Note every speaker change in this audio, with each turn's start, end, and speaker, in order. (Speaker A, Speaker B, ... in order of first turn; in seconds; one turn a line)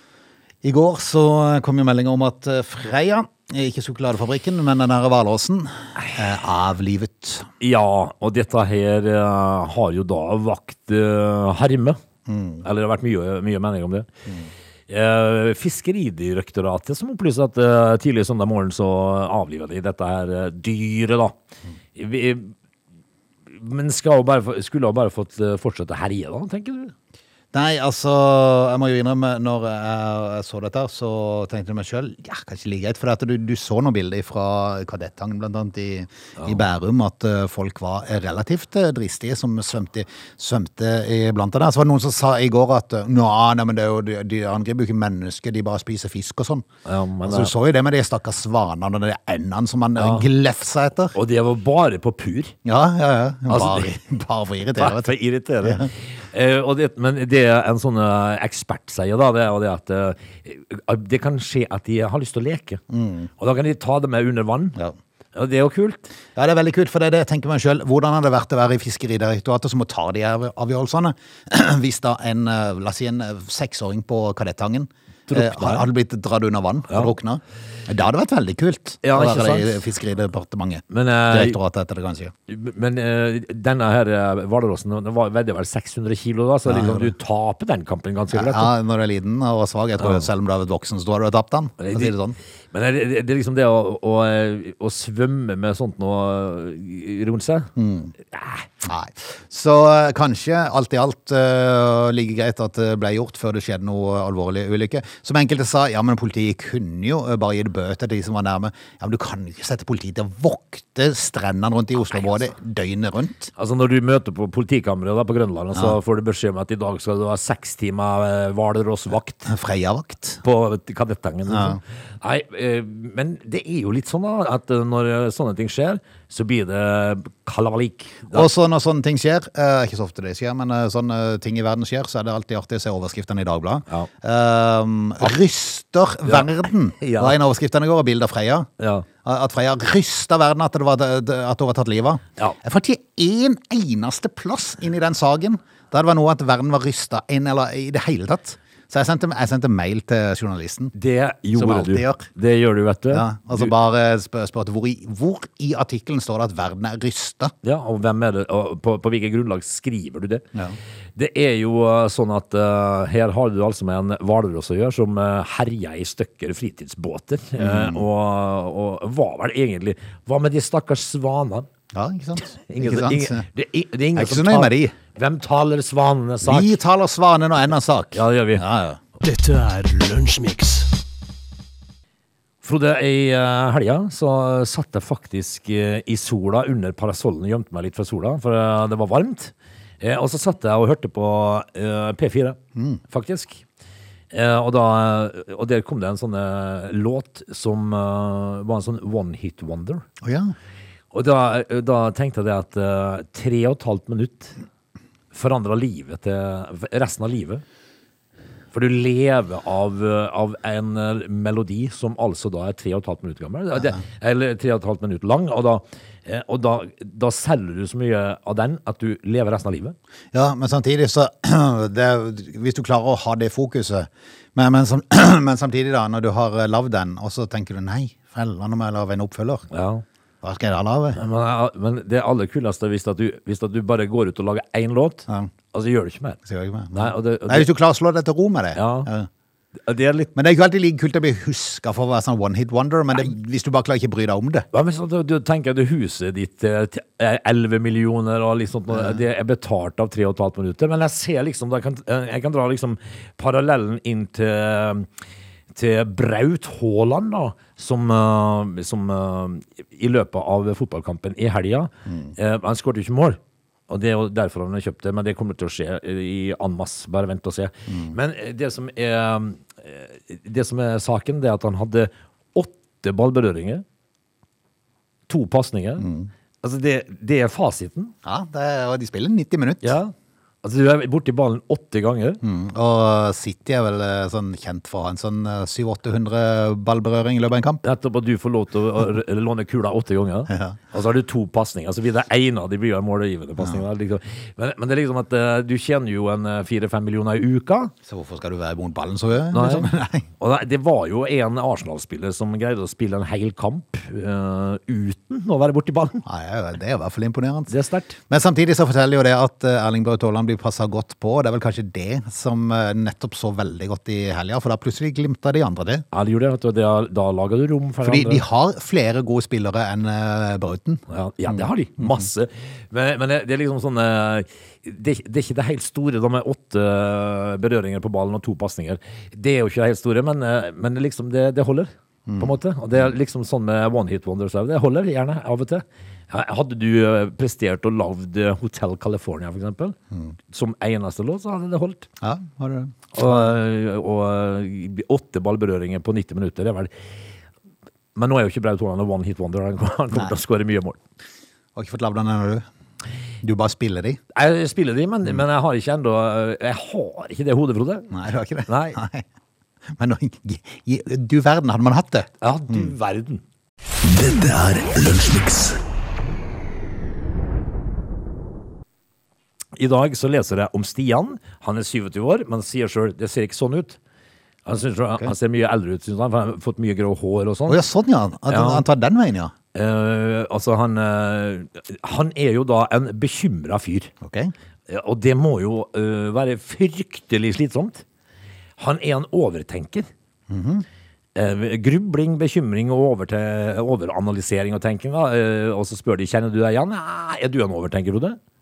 Speaker A: 0.6-7.5
Speaker B: 7.6-12.0
Speaker A: 12.3-12.6
Speaker B: 12.6-14.1
Speaker B: 14.9-21.4
Speaker B: 21.9-22.5
Speaker B: 23.5-26.9
Speaker A: 27.5-46.6
Speaker B: 46.8-47.5
Speaker A: 47.2-51.1
Speaker B: 50.0-50.3
Speaker B: 51.1-52.5
Speaker A: 52.6-55.9
Speaker B: 53.5-53.9
Speaker B: 54.8-62.8
Speaker A: 62.9-63.3
Speaker B: 63.4-64.8
Speaker B: 65.3-66.1
Speaker A: 66.3-82.3
Speaker B: 75.3-75.8
Speaker B: 79.0-79.8
Speaker B: 80.9-81.6
Speaker B: 82.5-88.7
Speaker A: 86.6-87.1
Speaker A: 88.3-92.4
Speaker B: 90.0-90.2
Speaker B: 91.8-92.2
Speaker B: 92.7-98.7
Speaker A: 97.8-98.1
Speaker A: 98.8-113.5
Speaker B: 113.5-119.5
Speaker A: 119.4-120.4
Speaker B: 120.4-128.5
Speaker A: 121.5-121.8
Speaker A: 128.3-138.7
Speaker B: 136.3-137.4
Speaker B: 138.8-139.1
Speaker A: 139.2-150.9
Speaker B: 150.9-153.7
Speaker A: 151.5-152.3
Speaker A: 153.1-157.5
Speaker B: 157.6-160.4
Speaker B: 161.2-171.7
Speaker A: 167.6-168.0
Speaker A: 171.9-173.5
Speaker B: 172.5-176.8
Speaker A: 174.1-174.9
Speaker A: 176.4-179.0
Speaker B: 178.1-178.6
Speaker C: 179.2-180.9
Speaker B: 182.6-192.6
Speaker A: 192.8-193.0
Speaker B: 193.1-193.6
Speaker B: 194.3-200.0
Speaker A: 200.2-200.5
Speaker B: 201.1-204.5
Speaker B: 205.3-207.6
Speaker B: 208.7-219.9
Speaker A: 220.3-229.7
Speaker B: 229.7-230.0
Speaker A: 230.4-231.2
Speaker B: 231.2-236.4
Speaker A: 236.4-239.3
Speaker B: 236.9-237.7
Speaker B: 238.7-239.1
Speaker B: 239.8-240.3
Speaker A: 240.3-244.7
Speaker B: 244.7-255.1
Speaker B: 255.7-273.8
Speaker A: 262.1-262.3
Speaker A: 267.9-268.1
Speaker B: 275.3-276.1
Speaker A: 276.0-276.3
Speaker B: 276.6-278.1
Speaker A: 278.2-280.0
Speaker B: 279.8-282.4
Speaker A: 282.4-287.8
Speaker B: 287.8-297.9
Speaker A: 290.5-290.8
Speaker A: 298.1-300.3
Speaker B: 299.5-306.2
Speaker A: 306.2-307.7
Speaker B: 307.7-308.2
Speaker A: 308.3-316.0
Speaker B: 316.1-318.4
Speaker A: 318.0-322.2
Speaker B: 321.1-340.0
Speaker A: 332.3-332.6
Speaker B: 340.5-342.1
Speaker A: 342.2-342.9
Speaker B: 343.1-346.9
Speaker B: 348.1-351.0
Speaker A: 351.8-352.6
Speaker A: 353.4-354.2
Speaker B: 354.3-358.1
Speaker A: 358.1-359.2
Speaker B: 358.7-359.0
Speaker A: 359.9-362.9
Speaker B: 362.4-363.4
Speaker C: 364.0-365.8
Speaker B: 369.8-374.0
Speaker B: 374.6-377.8
Speaker A: 377.7-379.5
Speaker B: 378.5-378.9
Speaker B: 379.7-384.1
Speaker A: 384.2-384.5
Speaker B: 384.9-388.0
Speaker B: 388.8-390.1
Speaker A: 390.5-390.8
Speaker B: 391.3-398.4